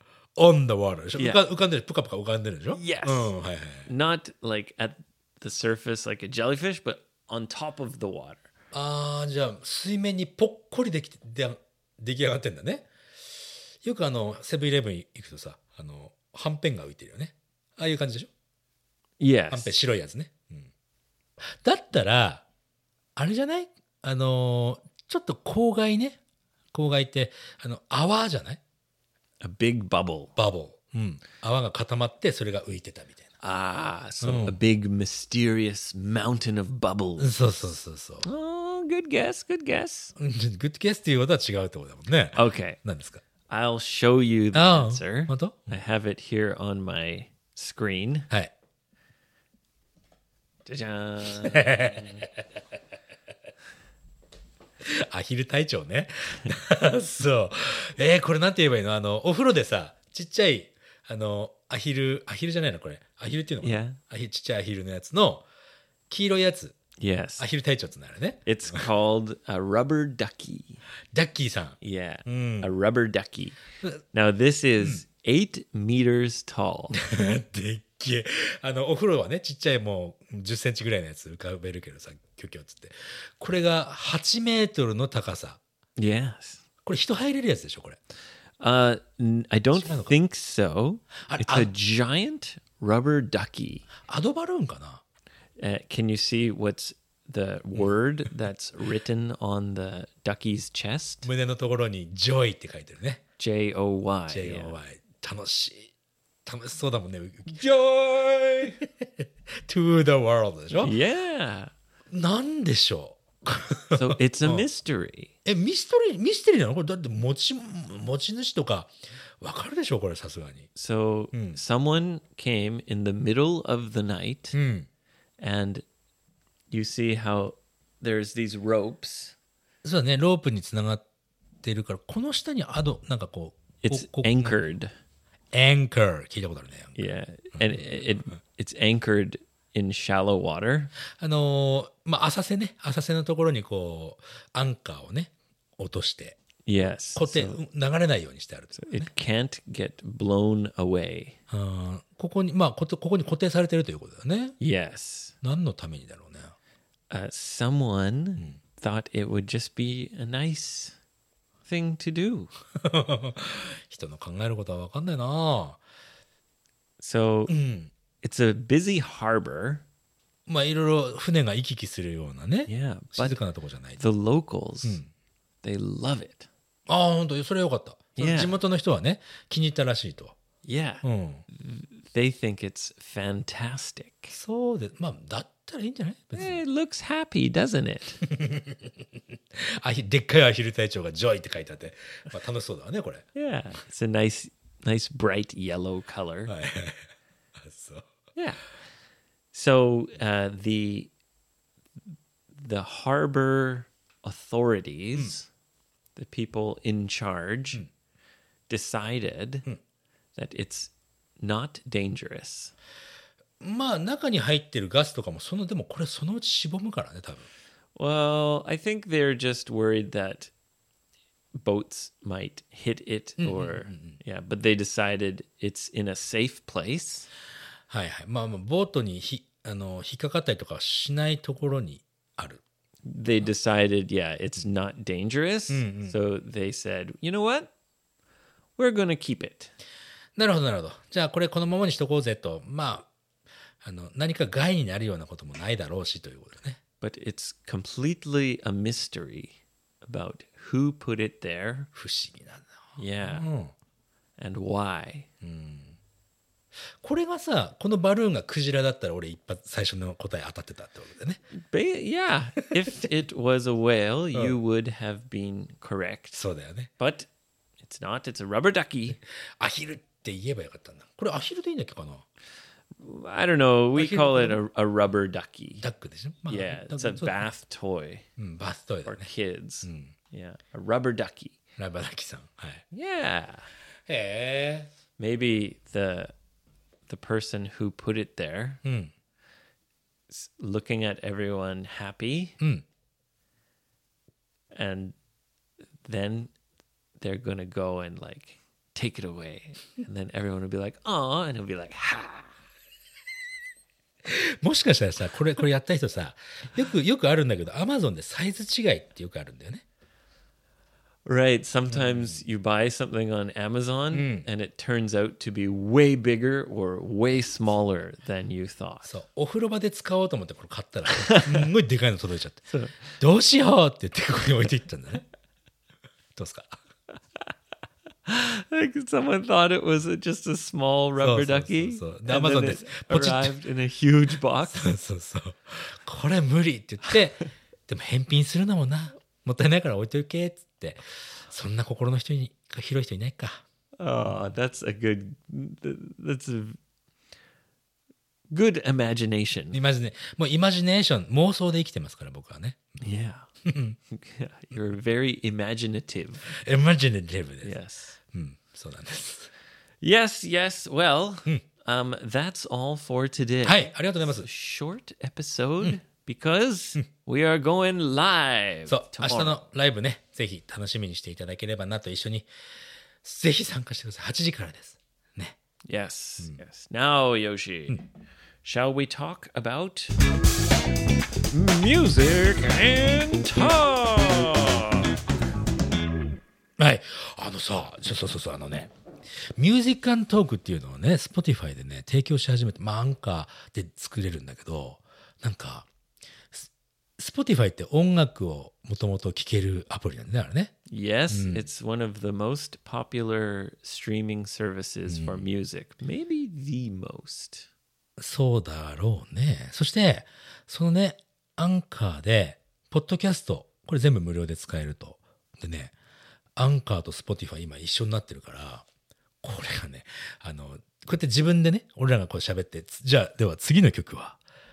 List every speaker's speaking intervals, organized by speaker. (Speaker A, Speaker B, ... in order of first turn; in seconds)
Speaker A: 0.3-3.9, 8.7-12.9, 13.8-18.3, 19.5-20.7, 21.4-22.4, 23.1-26.2, 26.7-28.6, 30.4-33.2, 34.2-34.6, 37.2-38.2, 40.2-43.2, 44.5-45.7, 51.4-52.2, 54.8-65.5, 66.1-66.8, 67.4-68.8, 71.1-72.7, 77.0-85.6, 86.8-88.0, 89.8-90.1, 91.3-91.7, 94.0-95.0, 101.2-103.2, 104.3-105.9, 106.4-111.0, 112.1-114.7, 115.4-120.7, 121.3-121.6, 124.5-124.9, 129.8-131.0, 131.6-134.6, 135.5-137.0, 137.5-137.9, 141.2-146.4, 147.1-149.1, 151.5-154.6, 155.4-156.5, 162.8-165.8, 167.5-167.9, 170.5-174.0, 174.8-175.1, 176.9-180.4, 181.0-181.4, 184.3-186.6, 188.3-193.3, 196.5-197.1, 197.6-198.1, 213.6-217.5, 223.4-224.2, 227.9-232.6, 235.7-236.1, 240.3-243.1, 243.8-246.8, 251.9-253.7, 255.4-255.9, 257.0-261.4, 266.3-266.9, 269.6-272.2, 273.9-274.6, 275.8-277.4, 278.4-279.3, 279.8-280.1, 281.8-282.8, 284.1-284.9, 288.8-289.1, 304.2-309.8, 311.9-312.4, 314.1-314.5, 319.0-322.6, 323.2-325.2, 326.3-326.8, 331.2-333.5, 334.7-343.6, 349.7-352.8, 353.6-354.0, 356.5-357.8, 358.3-359.5, 363.6-364.5, 368.9-372.5, 373.2-375.6, 386.8-388.9, 389.6-395.9, 396.5-400.7, 401.3-401.6, 405.1-405.5, 408.2-415.9, 416.6-418.8, 419.4-424.4
Speaker B: 1.1-1.4, 2.7-3.3, 3.8-8.4, 19.2-19.7, 29.4-30.3, 33.4-37.4, 38.2-40.1, 42.3-42.8, 43.5-48.3, 50.6-52.2, 63.6-64.0, 67.0-67.5, 68.5-70.8, 71.8-73.6, 74.1-77.0, 86.0-86.6, 88.6-93.9, 95.6-101.3, 103.4-104.8, 110.8-111.7, 113.9-115.3, 120.7-124.6, 125.4-125.8, 126.7-129.3, 133.8-134.9, 136.9-140.9, 146.6-147.6, 148.8-151.4, 154.6-155.3, 157.1-160.9, 161.6-162.5, 167.0-167.5, 168.2-169.8, 172.7-173.4, 174.0-175.0, 175.6-176.5, 178.2-178.6, 180.6-184.3, 186.3-188.2, 193.3-196.5, 198.3-198.6, 199.5-201.1, 202.5-205.5, 206.2-207.8, 208.7-209.7, 210.3-212.7, 217.9-220.5, 221.5-227.3, 233.0-237.7, 238.8-239.7, 247.0-251.9, 253.0-253.4, 254.4-255.3, 261.5-266.4, 267.0-267.3, 267.8-269.2, 273.0-275.8, 276.5-278.2, 279.0-281.6, 282.9-283.7, 285.2-286.3, 287.1-288.8, 290.3-292.6, 294.7-295.1, 296.0-296.5, 297.2-302.5, 311.2-319.1, 321.1-321.7, 322.7-323.2, 328.2-334.9, 344.0-346.8, 348.5-349.8, 353.0-353.5, 354.1-356.6, 357.6-358.2, 360.0-369.6, 375.9-378.0, 378.6-380.1, 381.5-385.1, 400.9-407.7